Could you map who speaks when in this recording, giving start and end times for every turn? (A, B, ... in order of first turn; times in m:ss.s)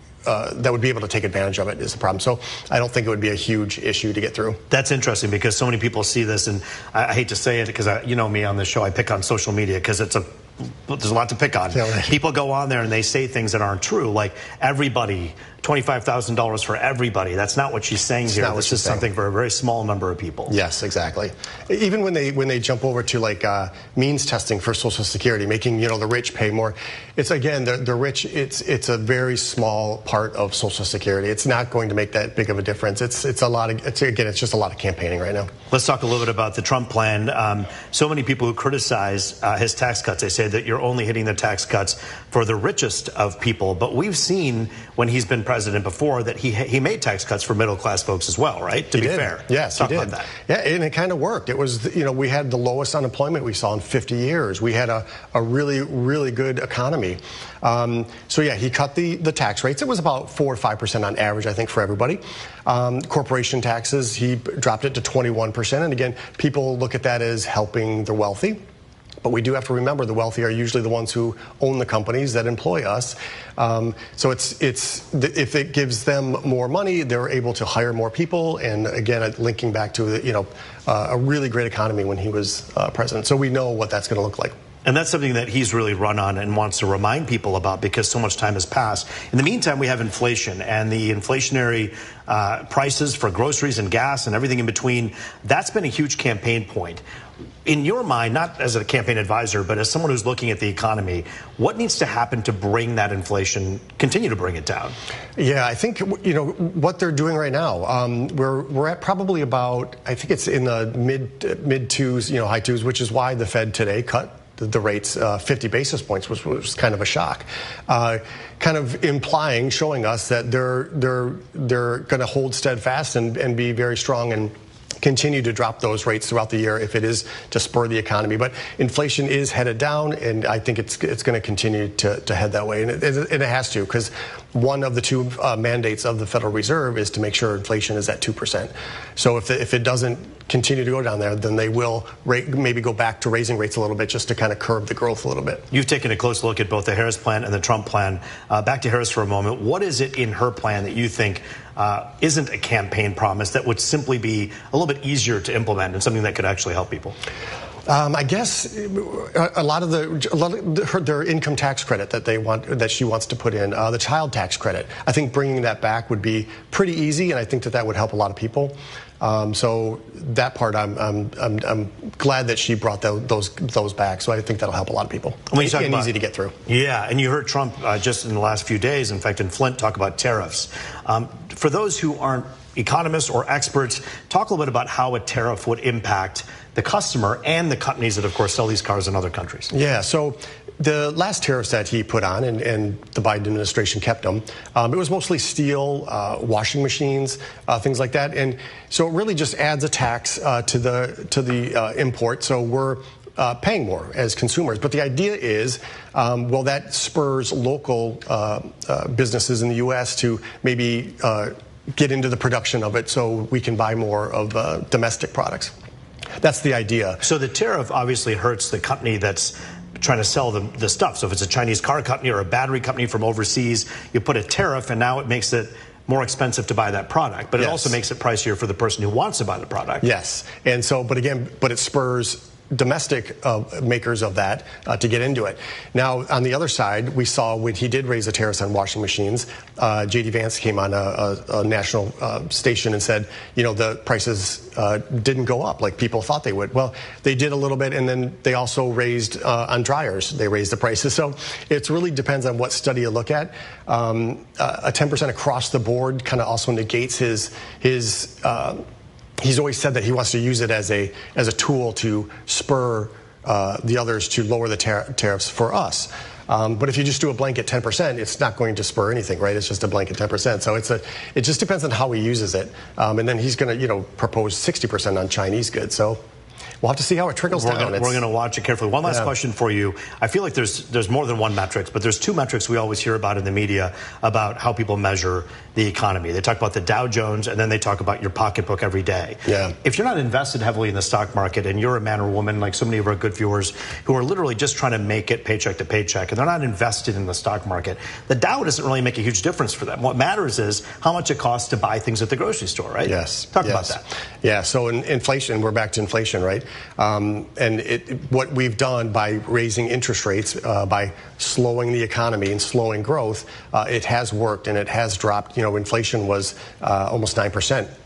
0:00.3-0:04.6 A
0:04.7-0:10.3 B
0:10.8-0:20.5 B
0:11.7-0:12.1 A
0:18.3-0:19.1 A
0:20.5-0:35.5 A
0:35.7-0:50.3 B
0:48.9-1:08.6 A
1:09.2-1:24.5 A
1:24.8-1:37.0 B
1:37.6-1:45.0 B
1:45.4-2:25.6 A
2:25.7-2:37.2 B
2:37.9-2:56.6 A
2:55.5-2:56.1 B
2:56.7-3:09.7 B
3:09.7-3:35.7 A
3:36.4-3:37.2 A
3:37.2-3:50.1 B
3:47.6-3:48.0 A
3:50.0-4:18.8 A
4:19.4-4:36.2 A
4:36.8-4:38.2 A
4:37.5-5:04.0 B
4:49.5-4:49.7 A
5:03.0-5:17.9 A